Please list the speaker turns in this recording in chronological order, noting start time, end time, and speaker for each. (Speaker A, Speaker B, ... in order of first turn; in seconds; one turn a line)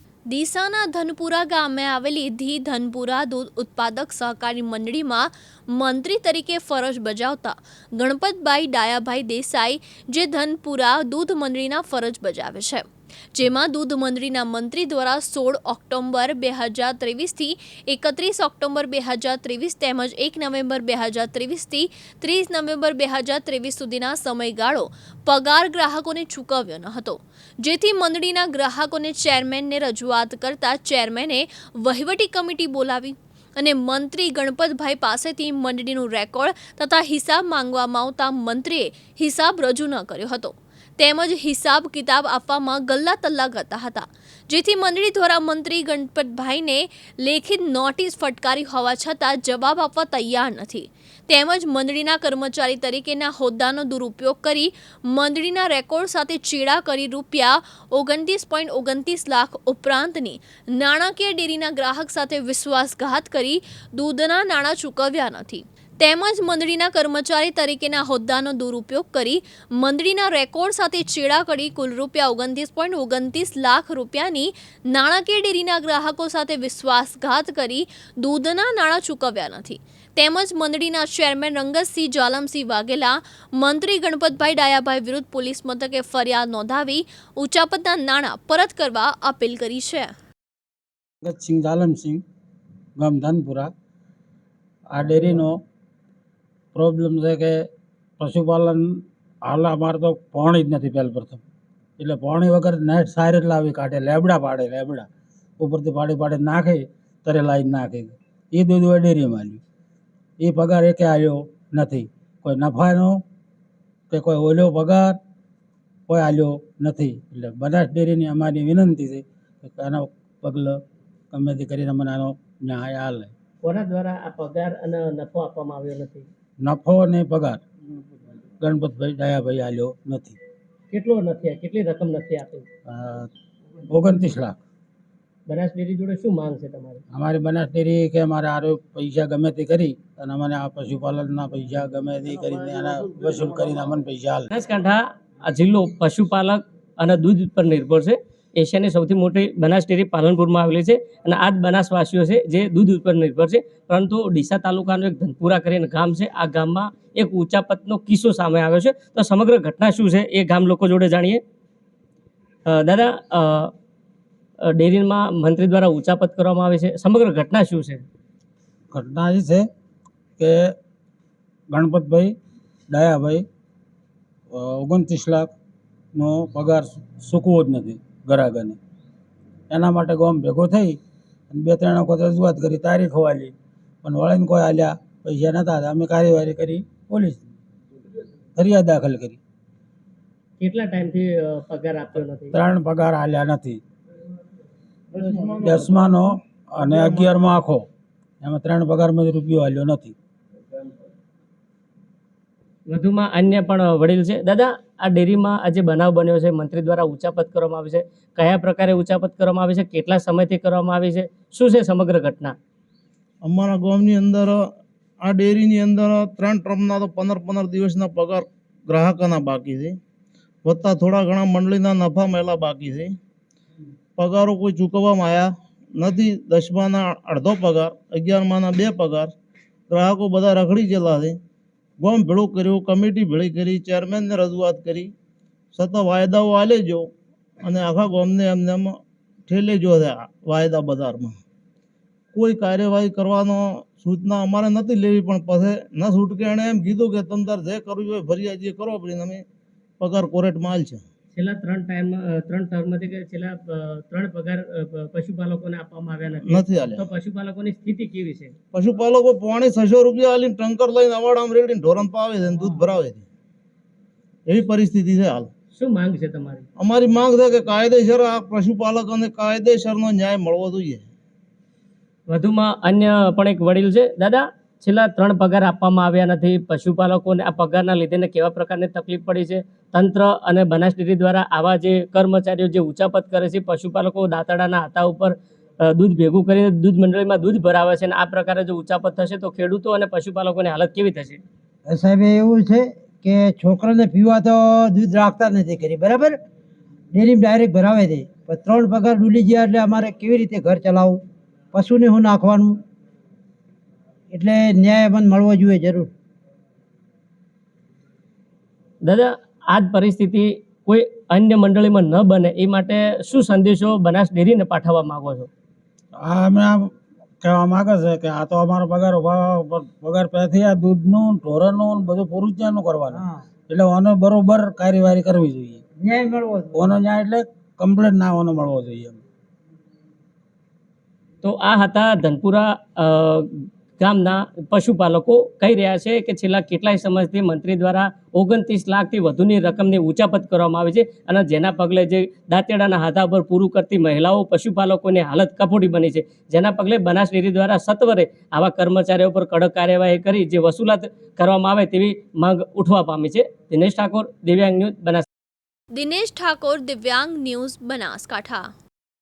Speaker A: 0.3-90.1
Speaker B: 91.2-92.2
Speaker B: 93.0-93.7
Speaker B: 94.9-95.6
Speaker B: 96.7-97.7
Speaker B: 98.2-101.4
Speaker B: 102.0-105.1
Speaker B: 105.6-109.6
Speaker B: 110.4-113.2
Speaker B: 114.1-115.2
Speaker B: 116.1-123.3
Speaker C: 123.6-126.3
Speaker B: 126.6-127.6
Speaker B: 128.6-130.4
Speaker C: 130.9-132.7
Speaker B: 132.9-133.3
Speaker B: 133.9-134.6
Speaker C: 135.5-137.0
Speaker B: 137.1-144.5
Speaker C: 144.5-161.4
Speaker C: 162.7-163.7
Speaker C: 164.7-168.0
Speaker B: 168.9-169.7
Speaker B: 170.4-170.7
Speaker B: 171.7-172.3
Speaker B: 172.9-173.4
Speaker B: 174.5-175.5
Speaker B: 176.1-178.8
Speaker B: 179.7-181.0
Speaker B: 181.5-187.4
Speaker B: 188.6-189.4
Speaker C: 190.6-192.6
Speaker B: 192.5-193.8
Speaker D: 195.1-196.2
Speaker B: 195.6-197.8
Speaker D: 196.8-197.3
Speaker B: 198.4-200.2
Speaker C: 202.9-212.5
Speaker D: 213.4-214.6
Speaker D: 215.2-220.0
Speaker D: 220.6-223.1
Speaker D: 224.2-229.3
Speaker D: 229.9-231.4
Speaker D: 232.0-235.1
Speaker D: 235.7-237.1
Speaker D: 237.6-238.9
Speaker D: 239.5-241.3
Speaker D: 242.3-249.4
Speaker D: 250.0-251.0
Speaker C: 251.3-258.5
Speaker D: 256.4-257.1
Speaker D: 258.7-263.2
Speaker D: 264.5-265.5
Speaker C: 265.7-266.6
Speaker D: 266.8-271.0
Speaker C: 272.3-291.4
Speaker E: 291.9-296.4
Speaker E: 297.1-301.2
Speaker E: 301.7-302.8
Speaker E: 304.3-306.1
Speaker C: 309.1-315.5
Speaker B: 316.2-325.8
Speaker E: 326.0-326.8
Speaker B: 326.7-329.2
Speaker C: 331.4-355.2
Speaker A: 355.9-358.7